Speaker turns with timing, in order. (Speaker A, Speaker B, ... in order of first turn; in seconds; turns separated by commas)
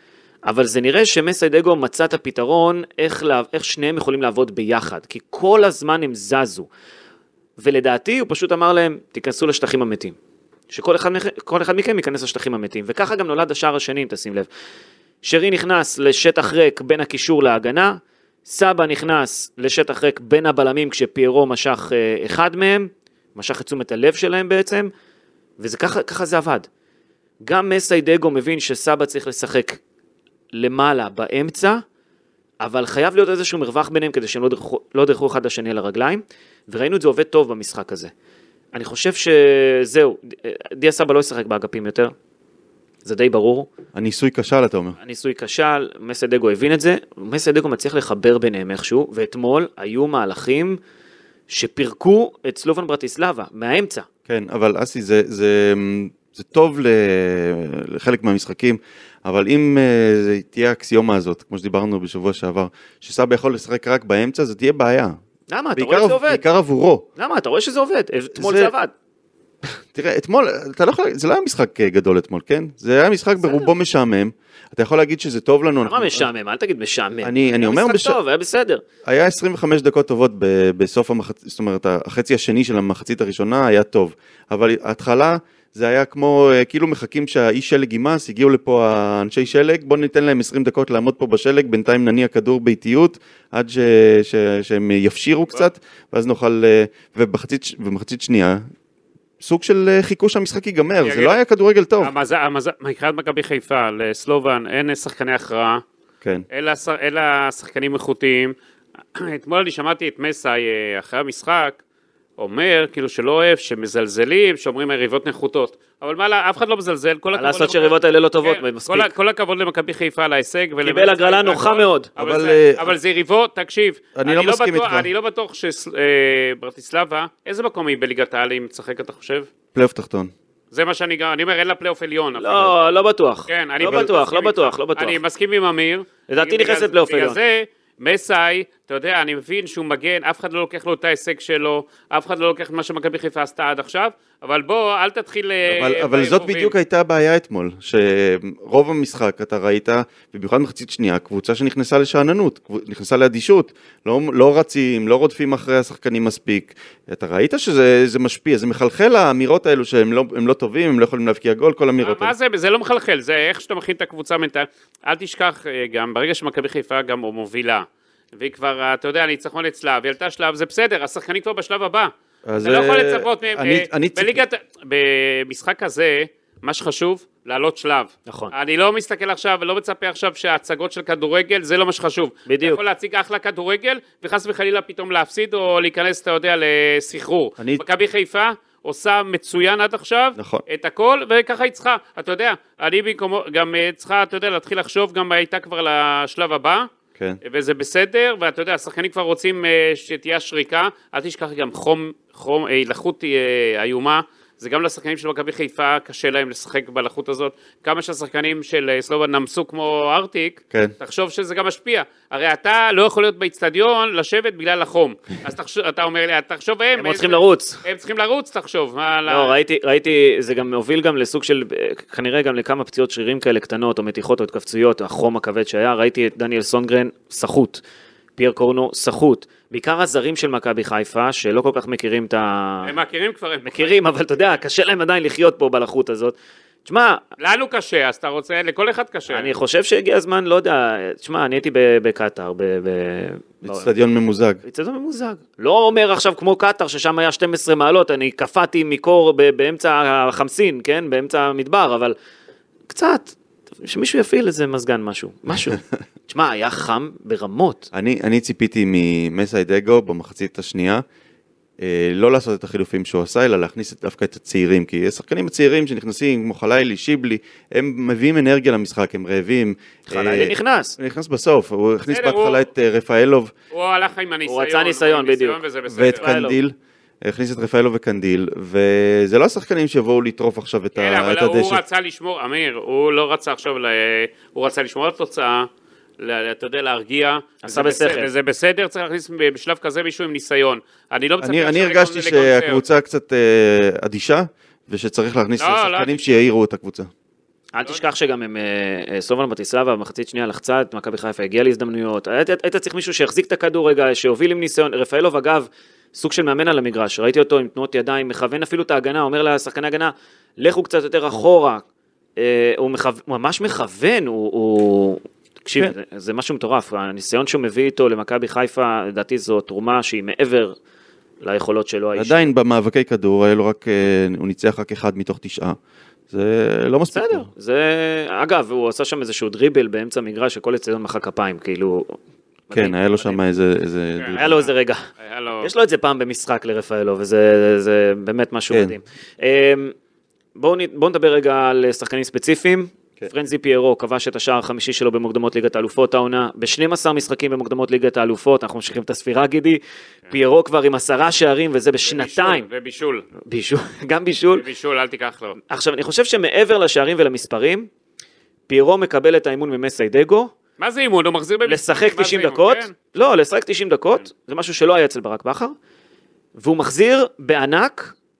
Speaker A: 0.4-6.7, Speaker A: 7.6-10.2, Speaker A: 10.7-14.5, Speaker A: 15.2-24.9, Speaker A: 25.6-26.7, Speaker A: 27.4-29.8, Speaker A: 30.5-31.8, Speaker A: 32.6-38.1, Speaker A: 38.7-42.1, Speaker A: 43.0-43.7, Speaker B: 43.9-45.0, Speaker A: 45.0-50.8, Speaker A: 51.5-54.1, Speaker B: 54.3-65.2, Speaker A: 65.5-66.4, Speaker B: 65.7-67.0, Speaker A: 67.2-68.9, Speaker B: 68.3-68.7, Speaker B: 69.6-76.3, Speaker A: 73.4-73.7, Speaker A: 75.8-78.8, Speaker B: 77.2-78.2, Speaker B: 79.0-98.6, Speaker B: 99.4-102.1, Speaker C: 101.0-101.4, Speaker C: 102.0-105.8, Speaker C: 106.5-108.5, Speaker C: 109.1-111.8, Speaker C: 112.4-129.5, Speaker A: 117.3-119.1, Speaker A: 120.8-122.1, Speaker B: 122.2-122.9, Speaker B: 124.2-125.1, Speaker B: 129.7-130.3, Speaker C: 130.7-132.7, Speaker A: 132.4-135.2, Speaker C: 133.5-146.7, Speaker B: 133.8-134.1, Speaker A: 136.3-137.4, Speaker B: 145.7-162.3, Speaker C: 162.0-196.9, Speaker B: 172.4-174.4, Speaker A: 178.3-178.5, Speaker A: 182.5-182.8, Speaker B: 190.3-190.6, Speaker C: 197.4-219.5, Speaker A: 216.9-217.8, Speaker A: 219.3-227.8, Speaker A: 228.4-232.9, Speaker C: 232.8-234.0, Speaker A: 233.6-236.3, Speaker A: 236.8-237.2, Speaker C: 237.4-239.5, Speaker A: 239.3-243.9, Speaker B: 243.6-244.6, Speaker A: 244.6-252.2, Speaker A: 252.9-257.9, Speaker B: 257.9-261.0, Speaker B: 261.8-273.5, Speaker A: 270.1-271.0, Speaker C: 272.1-272.6, Speaker C: 273.7-276.3, Speaker A: 274.4-276.6, Speaker B: 275.9-281.8, Speaker C: 280.9-285.7, Speaker C: 286.2-292.8, Speaker A: 287.6-288.3, Speaker B: 291.4-297.1, Speaker C: 295.6-296.3, Speaker A: 297.7-311.8, Speaker A: 312.4-320.8, Speaker A: 321.4-322.5, Speaker B: 322.1-325.8, Speaker B: 326.3-327.5, Speaker A: 327.1-332.2, Speaker A: 332.7-333.4, Speaker B: 332.7-334.6, Speaker C: 334.2-334.4, Speaker A: 334.3-335.1, Speaker C: 335.2-335.7, Speaker A: 335.6-339.9, Speaker B: 338.7-339.0, Speaker A: 340.6-352.6, Speaker C: 352.1-353.2, Speaker A: 353.4-354.6, Speaker C: 354.5-355.6, Speaker A: 355.7-357.9, Speaker A: 358.7-360.5, Speaker C: 360.8-362.9, Speaker A: 361.6-365.7, Speaker A: 366.6-368.1